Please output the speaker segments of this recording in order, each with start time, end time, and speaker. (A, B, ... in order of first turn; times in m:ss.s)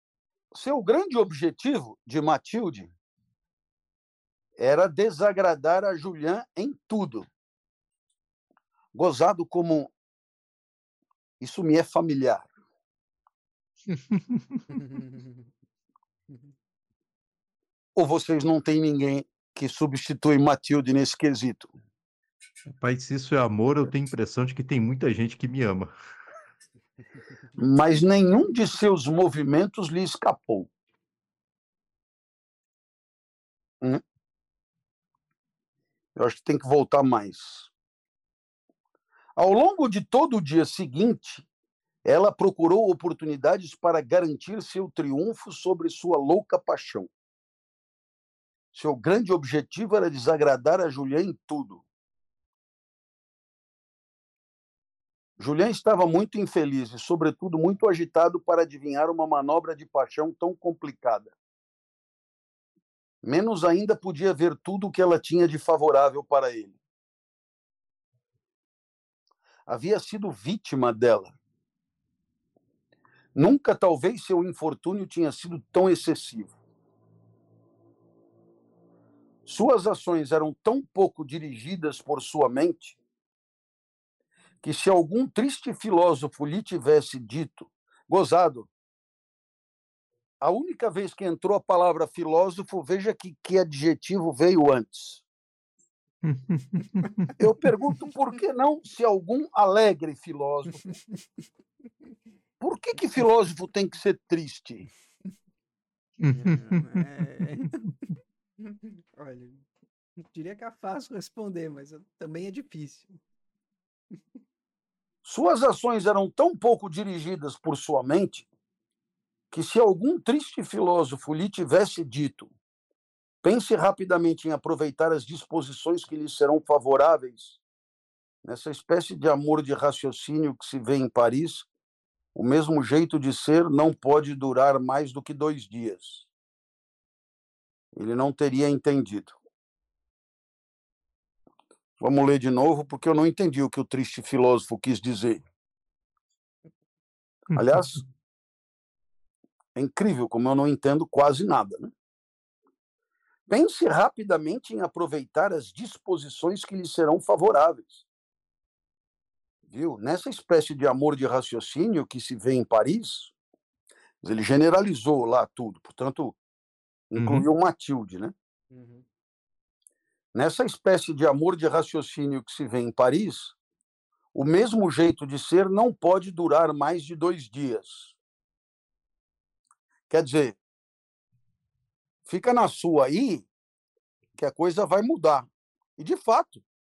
0:00.5-0:02.9 A
0:04.6-0:07.2 A
0:08.9-0:09.9 A
0:11.4-0:12.5 A
0:13.9-0:14.7 B
0:14.7-0:15.4 C
0:18.0-0:21.7 A
0:22.8-0:25.9 B
0:27.6-0:30.7 A
0:36.2-0:37.7 A
0:39.4-0:41.4 A
0:42.0-0:47.1 A
0:48.7-0:51.8 A
0:55.4-1:01.3 A
1:03.2-1:06.8 A
1:09.7-1:11.3 A
1:13.3-1:16.5 A
1:19.4-1:23.0 A
1:24.6-1:28.7 A
1:30.4-1:35.2 A
1:36.2-1:37.2 B
1:37.4-1:40.9 A
1:40.8-1:41.2 C
1:42.6-1:44.9 A
1:46.2-1:46.8 B
1:46.3-1:47.8 C
1:48.6-1:49.6 C
1:50.2-1:53.2 C
1:55.2-1:58.4 A
1:59.5-2:02.5 A
2:03.4-2:07.6 A
2:08.4-2:11.7 A
2:12.3-2:16.3 A
2:17.9-2:19.4 A
2:22.0-2:25.4 A
2:27.5-2:28.0 A
2:29.7-2:31.9 A
2:33.5-2:38.0 A
2:39.7-2:43.3 A
2:44.2-2:46.4 A
2:47.1-2:48.3 A
2:47.2-2:47.4 B
2:48.7-2:49.0 C
2:50.3-2:53.5 A
2:54.3-2:58.1 A
3:00.1-3:00.6 A
3:02.3-3:03.5 A
3:04.4-3:06.6 A